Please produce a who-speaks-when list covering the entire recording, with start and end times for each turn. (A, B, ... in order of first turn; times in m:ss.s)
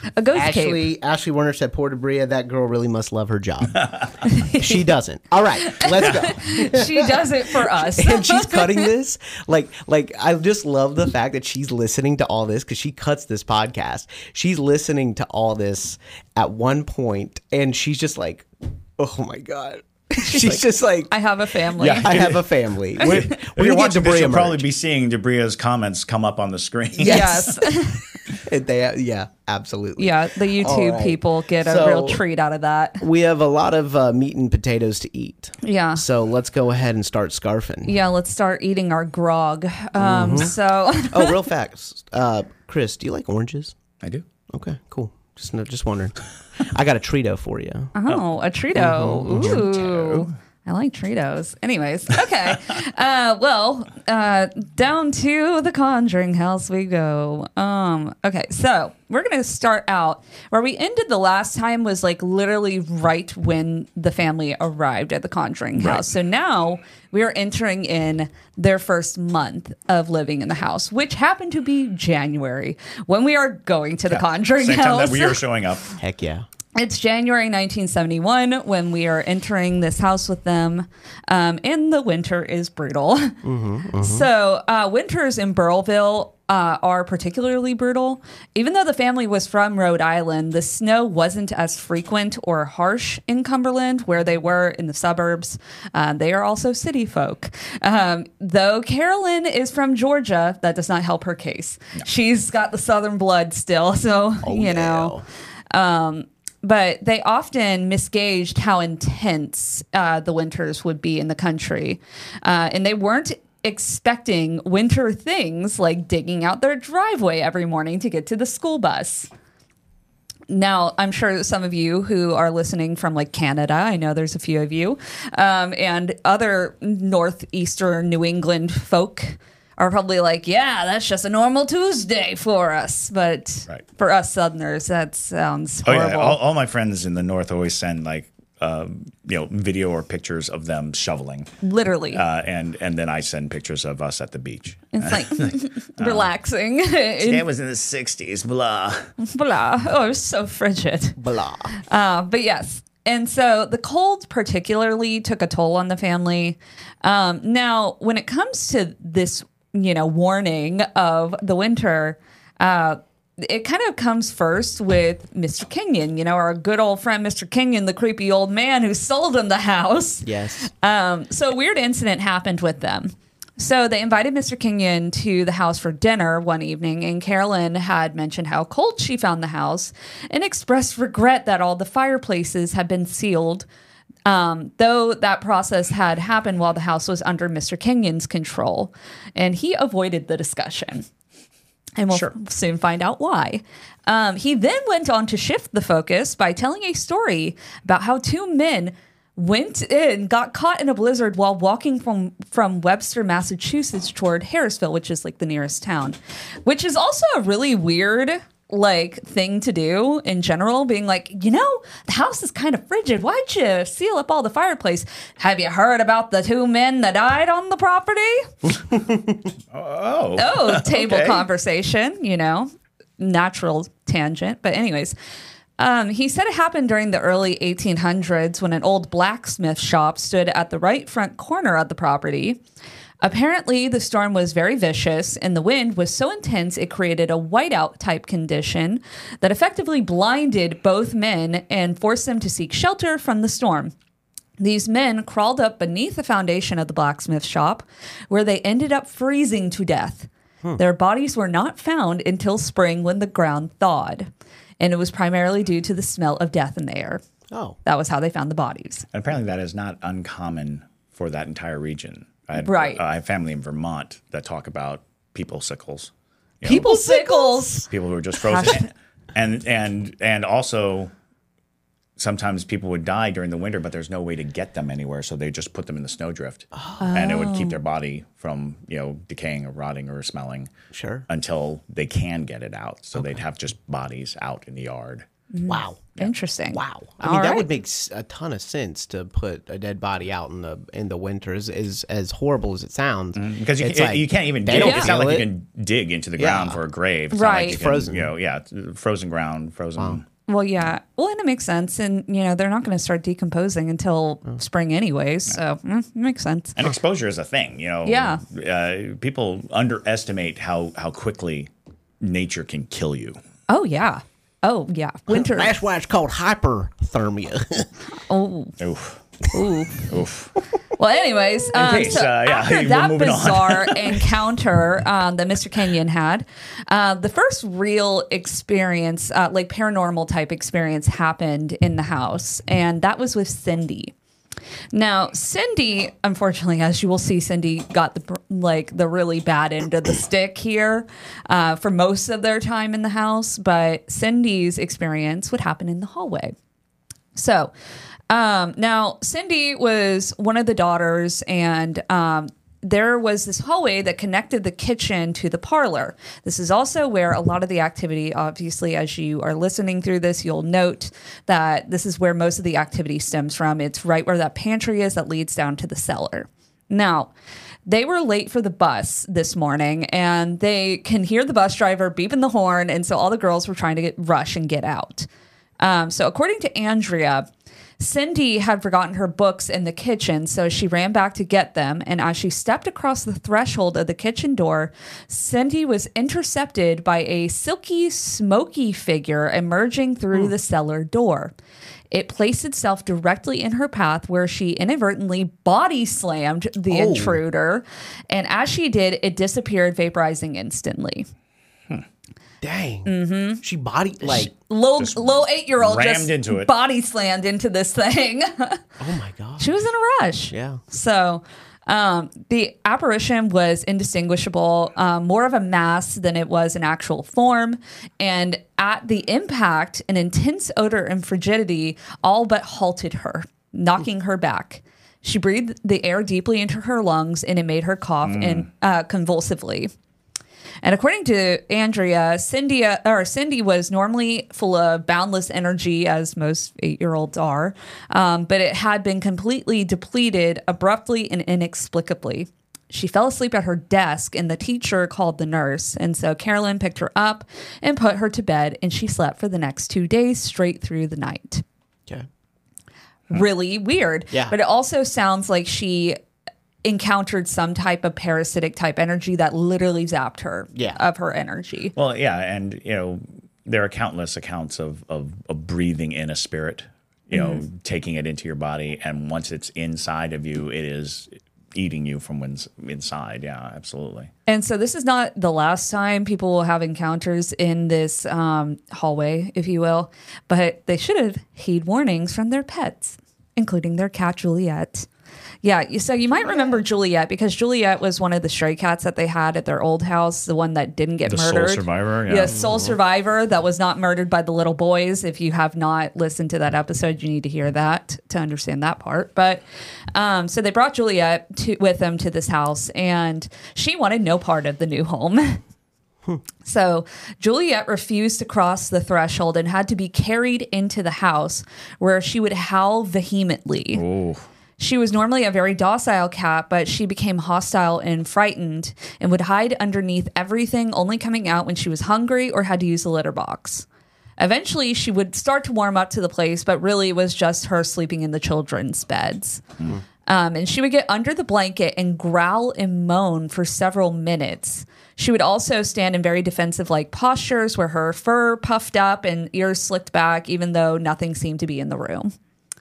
0:00.1-0:00.8 A
0:00.3-0:03.9 B
0:03.7-0:04.1 C
0:04.2-0:04.9 A
0:04.5-0:21.1 B
0:05.6-0:08.9 A
0:06.0-0:06.2 C
0:20.1-0:20.6 A
0:21.1-0:22.2 A
0:21.8-0:27.6 C
0:22.0-0:24.6 B
0:23.0-0:23.3 A
0:27.0-0:27.4 B
0:27.0-0:28.2 A
0:28.4-0:32.2 B
0:30.0-0:33.0 A
0:33.0-0:37.9 B
0:35.6-0:36.0 A
0:37.8-0:41.4 A
0:40.0-0:40.5 B
0:41.1-0:43.8 B
0:44.5-0:47.9 B
0:47.9-1:15.4 A
0:48.7-0:49.6 B
0:49.3-0:50.3 C
1:05.8-1:06.0 C
1:14.1-1:15.9 C
1:16.0-1:16.4 B
1:16.7-1:23.4 A
1:23.4-1:24.3 B
1:23.9-1:45.2 A
1:44.4-1:45.2 B
1:45.7-1:59.3 A
2:00.5-2:16.4 A
2:15.8-2:21.5 C
2:21.6-2:22.2 A
2:22.1-2:26.3 C
2:24.9-2:27.4 A
2:27.2-2:29.1 C
2:29.2-2:31.2 A
2:31.2-2:31.8 B
2:31.7-3:03.6 A
2:50.2-2:50.7 B
3:04.2-3:11.1 A
3:12.0-3:38.5 A
3:38.9-3:39.4 B
3:39.7-3:41.4 C
3:40.4-3:45.2 A
3:45.8-3:52.6 A
3:53.2-4:03.9 A
4:04.6-4:17.2 A
4:17.5-4:17.8 B
4:17.8-4:19.1 A
4:19.1-4:27.2 C
4:22.6-4:23.0 A
4:26.6-4:28.9 A
4:27.9-4:31.1 C
4:32.2-4:40.7 C
4:36.7-4:37.1 B
4:37.0-4:37.8 A
4:40.9-4:41.2 B
4:41.3-4:45.2 C
4:45.5-4:47.7 A
4:45.7-4:46.0 B
4:46.7-4:55.5 B
4:53.3-5:00.2 C
4:54.8-4:55.1 A
4:56.4-4:56.8 B
4:57.3-4:57.8 A
4:57.6-4:58.3 B
5:00.5-5:06.8 A
5:06.8-5:11.7 C
5:08.0-5:08.4 A
5:12.2-5:13.4 C
5:13.7-5:15.7 A
5:15.3-5:17.9 B
5:18.2-5:18.7 A
5:18.8-5:19.2 C
5:19.5-5:20.1 A
5:20.1-5:20.5 C
5:20.9-5:34.1 A
5:21.7-5:24.2 C
5:34.9-5:46.5 A
5:47.3-5:47.7 A
5:48.3-6:07.3 A
6:07.8-6:15.3 A
6:15.8-6:17.5 A
6:18.0-6:31.5 A
6:32.1-6:41.3 A
6:36.9-6:37.4 B
6:42.6-6:44.5 B
6:43.0-6:43.6 A
6:44.2-6:48.9 A
6:45.0-6:46.7 C
6:49.0-6:49.7 B
6:49.6-7:09.9 A
6:50.5-6:50.8 B
7:08.2-7:08.6 C
7:10.8-7:31.6 A
7:33.3-7:36.2 A
7:34.3-7:34.6 B
7:36.8-7:41.9 A
7:40.7-7:41.0 B
7:42.0-7:54.3 C
7:47.3-7:47.6 A
7:54.5-8:05.1 A
8:05.6-8:19.6 A
8:11.2-8:12.6 C
8:12.5-8:13.0 B
8:20.1-8:25.6 A
8:26.6-8:34.0 A
8:33.9-8:34.4 C
8:34.8-8:43.8 A
8:44.4-8:49.6 A
8:50.2-9:02.3 A